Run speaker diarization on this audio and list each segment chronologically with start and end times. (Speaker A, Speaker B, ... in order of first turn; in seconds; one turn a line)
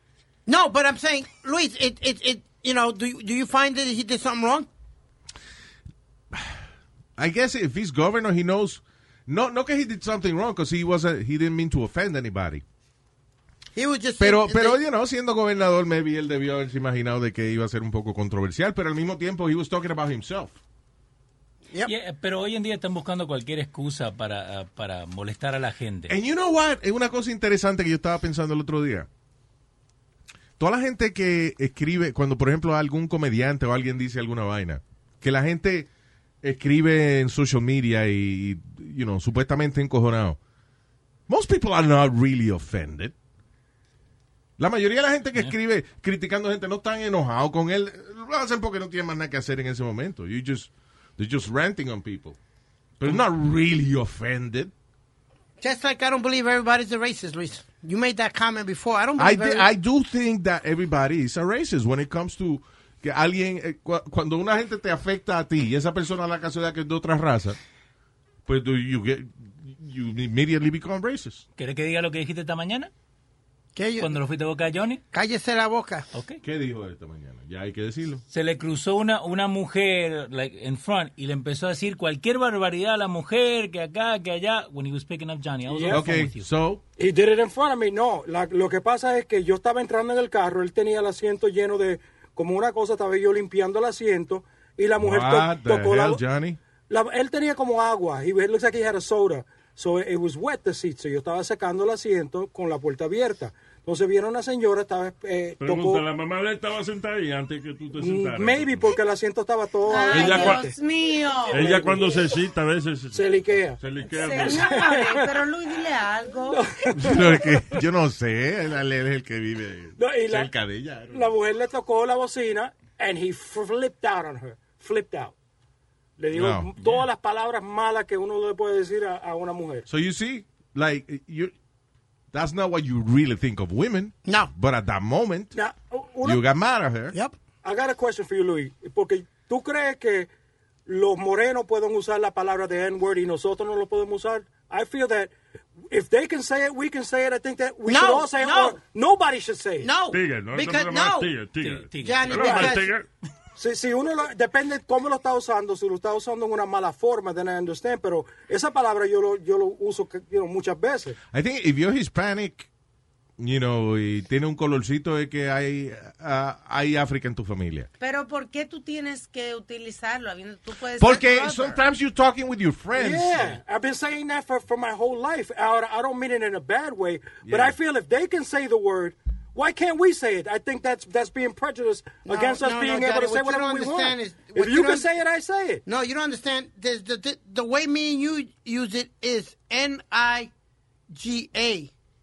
Speaker A: 0.5-4.7
Speaker B: 6.3-6.6
Speaker B: 7.2-12.6
Speaker A: 13.7-14.8
Speaker B: 14.2-20.5
Speaker C: 21.9-26.1
Speaker B: 26.1-29.1
Speaker B: 30.6-35.9
Speaker B: 36.4-40.4
Speaker B: 41.3-43.1
Speaker B: 44.6-52.4
Speaker B: 53.0-54.7
Speaker A: 55.6-59.7
Speaker B: 59.2-67.6
Speaker B: 68.5-71.4
Speaker C: 71.6-72.9
Speaker A: 73.7-74.1
Speaker C: 74.0-75.0
Speaker A: 75.1-76.1
Speaker C: 76.1-76.4
Speaker B: 76.4-78.2
Speaker C: 78.3-86.5
Speaker D: 85.7-86.0
Speaker B: 85.9-86.8
Speaker D: 87.0-96.2
Speaker B: 95.0-96.6
Speaker D: 96.9-106.0
Speaker E: 105.6-108.9
Speaker D: 108.0-110.7
Speaker F: 109.9-111.8
Speaker E: 110.1-110.6
Speaker E: 111.5-114.7
Speaker D: 111.5-112.3
Speaker D: 113.1-115.3
Speaker F: 114.2-116.7
Speaker D: 116.5-117.3
Speaker B: 116.9-121.3
Speaker D: 120.0-120.5
Speaker D: 121.1-125.3
Speaker D: 126.2-129.8
Speaker B: 126.3-126.7
Speaker C: 126.8-127.0
Speaker B: 129.9-131.5
Speaker B: 132.3-135.5
Speaker A: 134.2-134.5
Speaker D: 135.5-136.4
Speaker B: 136.2-137.2
Speaker D: 137.6-140.3
Speaker D: 140.8-145.3
Speaker D: 145.9-149.9
Speaker A: 147.8-148.8
Speaker A: 149.8-151.3
Speaker E: 150.1-153.1
Speaker C: 151.6-152.5
Speaker A: 152.0-152.9
Speaker D: 152.3-152.8
Speaker D: 153.6-161.2
Speaker B: 161.3-162.7
Speaker B: 163.4-167.9
Speaker F: 168.0-171.8
Speaker B: 171.0-173.6
Speaker D: 172.9-185.8
Speaker B: 177.4-177.8
Speaker A: 182.2-185.1
Speaker A: 185.8-190.5
Speaker A: 191.1-191.9